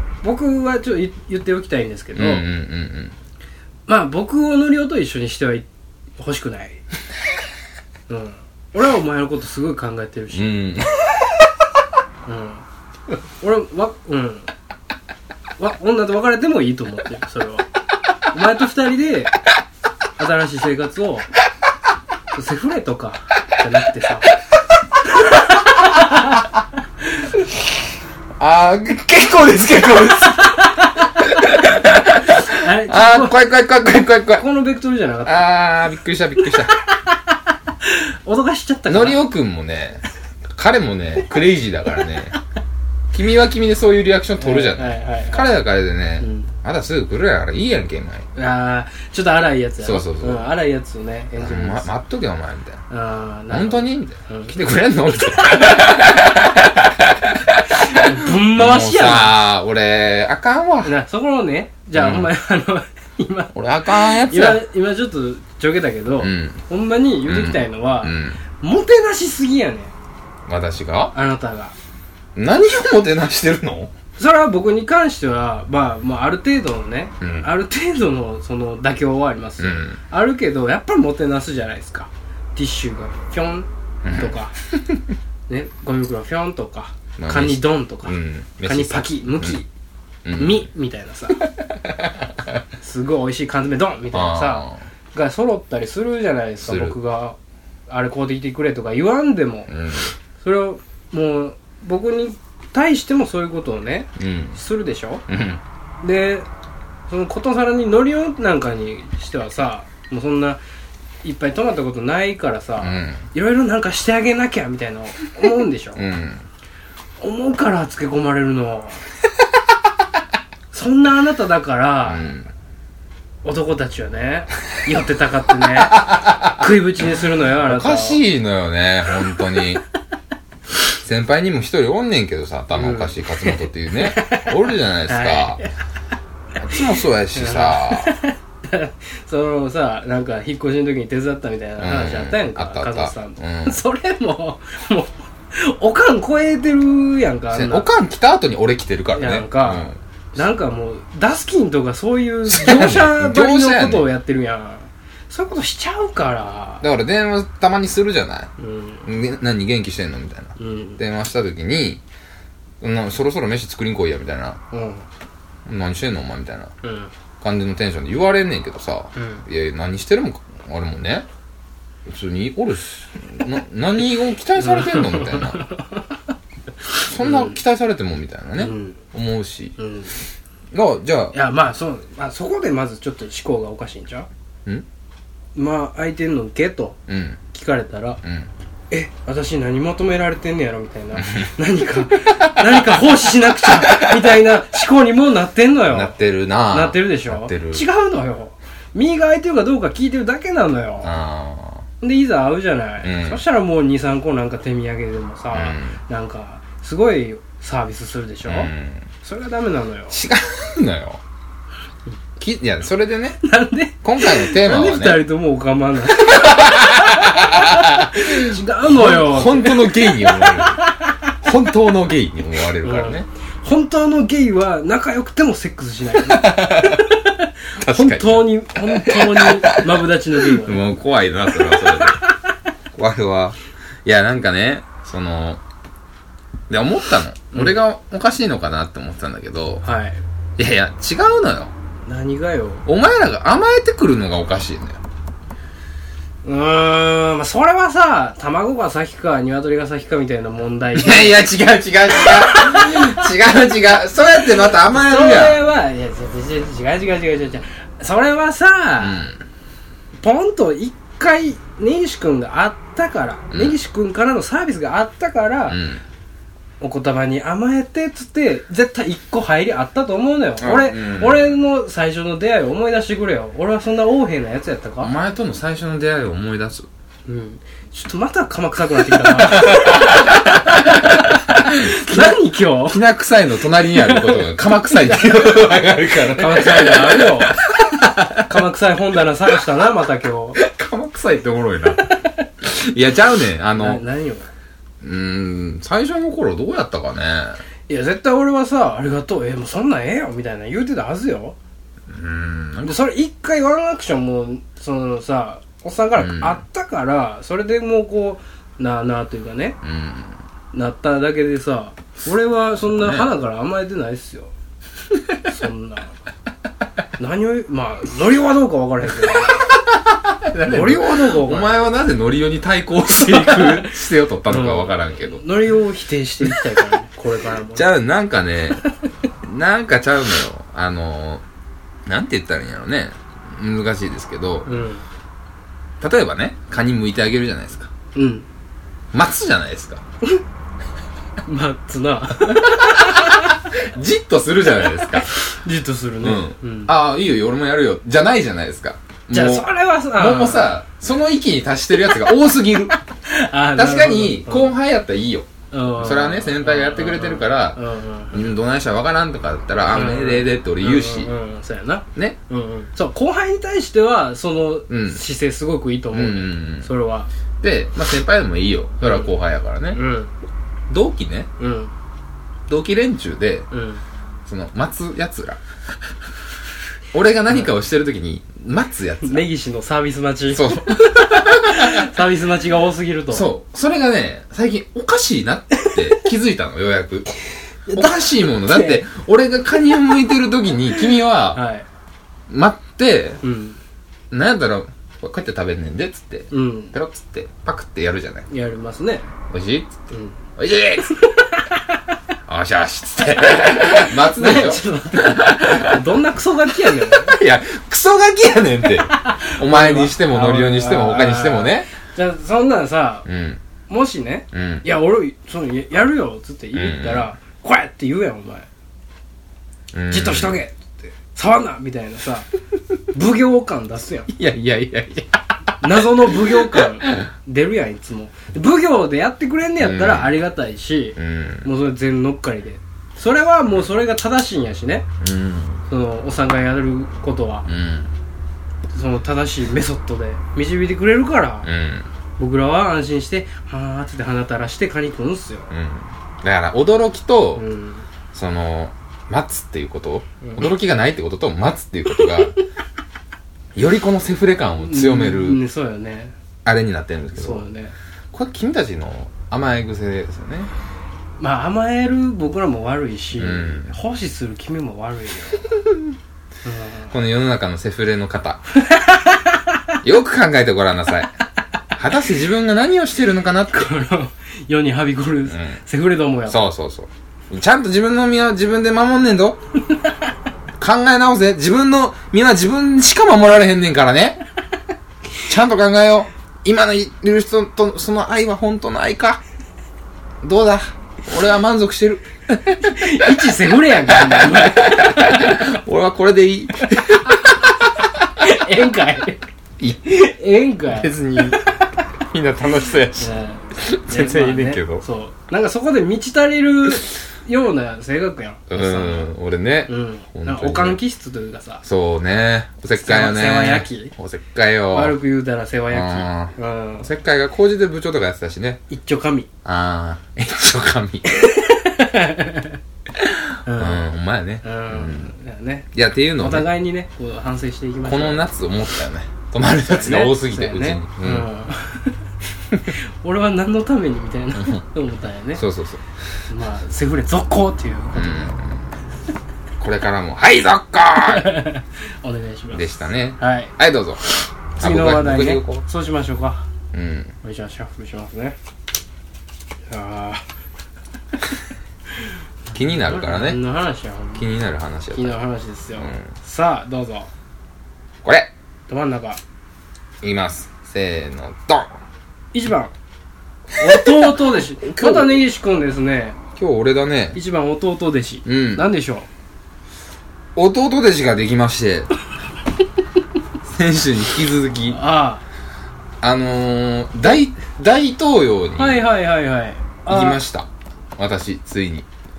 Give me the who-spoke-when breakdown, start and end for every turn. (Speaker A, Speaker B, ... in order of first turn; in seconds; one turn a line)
Speaker A: 0.2-2.5
Speaker B: 2.1-3.1
Speaker A: 3.9-5.7
Speaker A: 6.2-6.8
Speaker A: 8.1-10.5
Speaker B: 10.3-11.0
Speaker A: 12.2-12.6
Speaker A: 13.4-14.5
Speaker A: 15.6-17.7
Speaker A: 18.3-19.3
Speaker A: 20.1-21.3
Speaker A: 22.3-24.3
Speaker A: 25.8-26.4
Speaker B: 28.4-34.5
Speaker A: 30.4-31.1
Speaker A: 32.3-33.4
Speaker A: 34.4-35.5
Speaker B: 35.2-36.8
Speaker A: 37.8-39.2
Speaker B: 38.9-42.4
Speaker B: 43.1-48.3
Speaker A: 44.4-45.6
Speaker A: 46.2-46.5
Speaker A: 48.3-51.9
Speaker B: 49.8-50.5
Speaker B: 51.4-52.8
Speaker A: 52.9-54.5
Speaker B: 53.5-60.9
Speaker A: 57.9-59.3
Speaker A: 60.8-69.9
Speaker B: 61.9-62.3
Speaker B: 63.5-64.6
Speaker B: 66.2-66.6
Speaker B: 67.2-68.4
Speaker B: 70.5-71.1
Speaker A: 71.1-71.7
Speaker B: 72.3-73.9
Speaker A: 74.2-84.5
Speaker B: 77.2-77.5
Speaker B: 79.6-80.0
Speaker B: 84.0-85.0
Speaker A: 85.5-89.7
Speaker B: 87.2-89.6
Speaker B: 90.2-90.7
Speaker A: 90.3-91.4
Speaker B: 91.8-92.3
Speaker A: 92.8-97.4
Speaker B: 94.1-94.8
Speaker B: 96.6-97.0
Speaker A: 97.9-99.7
Speaker B: 99.7-100.1
Speaker A: 100.4-105.2
Speaker B: 104.2-104.6
Speaker B: 105.3-105.6
Speaker A: 106.0-106.5
Speaker A: 107.1-110.6
Speaker A: 111.2-116.0
Speaker B: 112.8-113.2
Speaker B: 116.0-116.4
Speaker A: 117.2-119.0
Speaker A: 120.7-122.3
Speaker B: 122.0-122.5
Speaker A: 123.4-128.2
Speaker B: 125.9-126.6
Speaker B: 127.6-129.8
Speaker B: 131.0-135.6
Speaker A: 132.7-134.5
Speaker A: 135.1-135.7
Speaker B: 136.6-138.2
Speaker A: 137.3-147.9
Speaker B: 141.8-143.8
Speaker B: 147.5-150.0
Speaker A: 149.2-156.8
Speaker B: 152.5-154.1
Speaker B: 156.8-158.5
Speaker A: 158.6-159.1
Speaker B: 159.0-162.0
Speaker A: 160.6-161.0
Speaker B: 162.8-164.6
Speaker A: 164.7-165.1
Speaker B: 165.7-166.7
Speaker A: 166.8-167.1
Speaker B: 167.4-171.3
Speaker A: 169.2-169.4
Speaker B: 172.1-175.6
Speaker A: 174.6-176.2
Speaker B: 177.0-179.8
Speaker A: 177.2-177.6
Speaker A: 178.6-179.0
Speaker A: 179.8-180.2
Speaker B: 180.7-181.4
Speaker A: 181.3-184.3
Speaker A: 185.5-187.0
Speaker B: 187.1-187.4
Speaker A: 187.5-188.2
Speaker B: 188.2-188.5
Speaker A: 188.9-196.2
Speaker B: 191.2-191.5
Speaker B: 192.3-192.8
Speaker B: 193.7-194.1
Speaker B: 195.9-197.8
Speaker A: 196.7-201.1
Speaker B: 201.0-201.8
Speaker A: 202.0-208.7
Speaker B: 203.0-203.4
Speaker B: 205.5-206.0
Speaker B: 208.4-209.1
Speaker A: 209.2-210.2
Speaker B: 210.1-211.2
Speaker B: 212.4-213.4
Speaker A: 213.4-221.3
Speaker B: 214.0-215.2
Speaker B: 216.1-223.2
Speaker A: 222.8-230.8
Speaker B: 226.1-227.2
Speaker B: 227.8-232.2
Speaker A: 231.5-232.3
Speaker B: 232.9-235.6
Speaker B: 236.7-239.8
Speaker A: 239.8-240.2
Speaker B: 240.6-241.7
Speaker A: 242.0-242.8
Speaker B: 242.8-245.0
Speaker A: 246.4-251.4
Speaker B: 250.9-255.6
Speaker A: 252.1-253.3
Speaker A: 254.6-259.2
Speaker B: 259.0-259.4
Speaker A: 260.2-265.8
Speaker B: 263.5-263.8
Speaker B: 265.7-266.0
Speaker A: 266.8-275.1
Speaker B: 270.6-271.5
Speaker B: 275.0-276.9
Speaker A: 277.2-283.0
Speaker B: 279.1-288.5
Speaker A: 283.8-285.3
Speaker A: 286.2-287.6
Speaker A: 288.4-290.6
Speaker B: 290.6-294.0
Speaker A: 293.8-294.5
Speaker B: 295.0-297.6
Speaker A: 297.9-301.6
Speaker B: 302.1-303.0
Speaker A: 302.8-309.8
Speaker B: 306.2-306.6
Speaker B: 309.8-310.4
Speaker A: 310.7-314.5
Speaker B: 312.8-313.3
Speaker A: 315.4-316.1
Speaker A: 317.2-319.6
Speaker B: 319.3-325.4
Speaker A: 320.6-321.9
Speaker A: 323.1-323.9
Speaker A: 324.5-327.9
Speaker B: 326.5-326.9
Speaker B: 327.7-328.9
Speaker B: 329.4-331.4
Speaker B: 332.1-334.7
Speaker A: 334.6-335.0
Speaker B: 336.0-337.9
Speaker A: 338.1-338.5
Speaker B: 339.1-340.0
Speaker A: 341.4-343.5
Speaker B: 342.5-345.3
Speaker A: 344.8-346.9
Speaker B: 346.2-353.0
Speaker A: 349.3-350.8
Speaker A: 352.9-354.7
Speaker B: 353.8-361.3
Speaker A: 355.7-358.5
Speaker A: 359.9-367.3
Speaker B: 364.9-365.2
Speaker B: 366.1-366.9
Speaker B: 367.6-370.0
Speaker A: 369.0-369.3
Speaker A: 369.9-370.3
Speaker B: 370.9-371.5
Speaker A: 371.6-371.9
Speaker B: 372.7-373.7
Speaker A: 373.7-374.0
Speaker B: 374.5-375.6
Speaker B: 377.1-379.5
Speaker A: 379.2-383.5
Speaker B: 380.5-382.1
Speaker B: 383.3-387.3
Speaker A: 387.9-389.0
Speaker B: 387.9-391.6
Speaker A: 390.9-391.9
Speaker B: 392.5-393.4
Speaker A: 393.4-393.8
Speaker B: 394.3-398.5
Speaker A: 396.5-396.9
Speaker A: 398.5-399.3
Speaker B: 399.5-400.0
Speaker A: 400.1-400.4
Speaker B: 400.5-401.2
Speaker A: 401.2-402.0
Speaker B: 402.5-406.0
Speaker A: 403.8-407.4
Speaker B: 406.9-411.9
Speaker A: 409.0-413.2
Speaker B: 413.2-413.6
Speaker A: 413.9-418.7
Speaker B: 414.5-414.9
Speaker B: 416.7-417.3
Speaker B: 419.9-420.6
Speaker A: 420.1-422.5
Speaker A: 423.1-424.3
Speaker B: 424.3-427.3
Speaker A: 425.8-435.1
Speaker B: 429.8-430.4
Speaker B: 431.2-431.7
Speaker B: 435.2-435.8
Speaker A: 435.9-437.7
Speaker B: 437.6-438.1
Speaker A: 438.9-441.7
Speaker B: 441.6-442.1
Speaker A: 442.4-445.7
Speaker B: 445.7-447.6
Speaker A: 447.6-448.1
Speaker B: 448.3-452.6
Speaker A: 450.4-450.7
Speaker B: 453.7-455.6
Speaker A: 454.8-456.3
Speaker B: 456.6-457.6
Speaker A: 457.3-457.9
Speaker B: 458.3-460.7
Speaker A: 461.4-465.7
Speaker B: 463.4-463.9
Speaker A: 466.6-467.1
Speaker B: 467.1-468.6
Speaker A: 468.8-469.8
Speaker B: 470.0-471.3
Speaker B: 471.9-473.9
Speaker A: 473.7-476.6
Speaker B: 475.5-475.8
Speaker B: 476.5-479.6
Speaker B: 480.8-484.4
Speaker B: 485.4-489.4
Speaker B: 490.4-493.5
Speaker A: 492.8-495.6
Speaker B: 494.0-498.3
Speaker A: 498.4-499.4
Speaker A: 500.0-501.9
Speaker B: 500.9-501.6
Speaker B: 502.2-505.0
Speaker A: 503.2-509.3
Speaker B: 508.7-511.0
Speaker A: 509.9-511.8
Speaker B: 511.8-515.2
Speaker A: 513.0-514.1
Speaker A: 514.9-517.1
Speaker B: 515.9-518.8
Speaker A: 518.9-519.5
Speaker B: 519.6-521.4
Speaker A: 521.3-522.8
Speaker B: 523.1-525.3
Speaker A: 523.6-524.0
Speaker A: 524.6-528.4
Speaker B: 525.9-526.7
Speaker B: 528.0-531.5
Speaker A: 529.8-532.2
Speaker A: 532.9-535.6
Speaker B: 535.5-536.0
Speaker A: 536.5-538.5
Speaker B: 538.1-538.9
Speaker B: 539.8-541.7
Speaker A: 541.2-543.7
Speaker B: 542.7-544.2
Speaker B: 544.8-545.8
Speaker A: 544.8-546.6
Speaker B: 546.9-547.3
Speaker A: 547.4-548.6
Speaker A: 549.9-550.4
Speaker B: 552.7-553.6
Speaker A: 553.0-554.5
Speaker B: 554.4-555.4
Speaker A: 555.1-557.3
Speaker B: 556.0-556.3
Speaker B: 558.2-558.5
Speaker A: 558.9-559.4
Speaker B: 560.2-562.0
Speaker A: 562.5-562.9
Speaker A: 563.8-566.4
Speaker B: 563.9-565.4
Speaker B: 566.5-567.4
Speaker A: 567.3-569.3
Speaker B: 568.5-568.9
Speaker B: 570.5-572.1
Speaker B: 573.7-575.0
Speaker A: 574.9-575.4
Speaker B: 576.2-579.0
Speaker A: 578.8-580.4
Speaker B: 580.1-582.1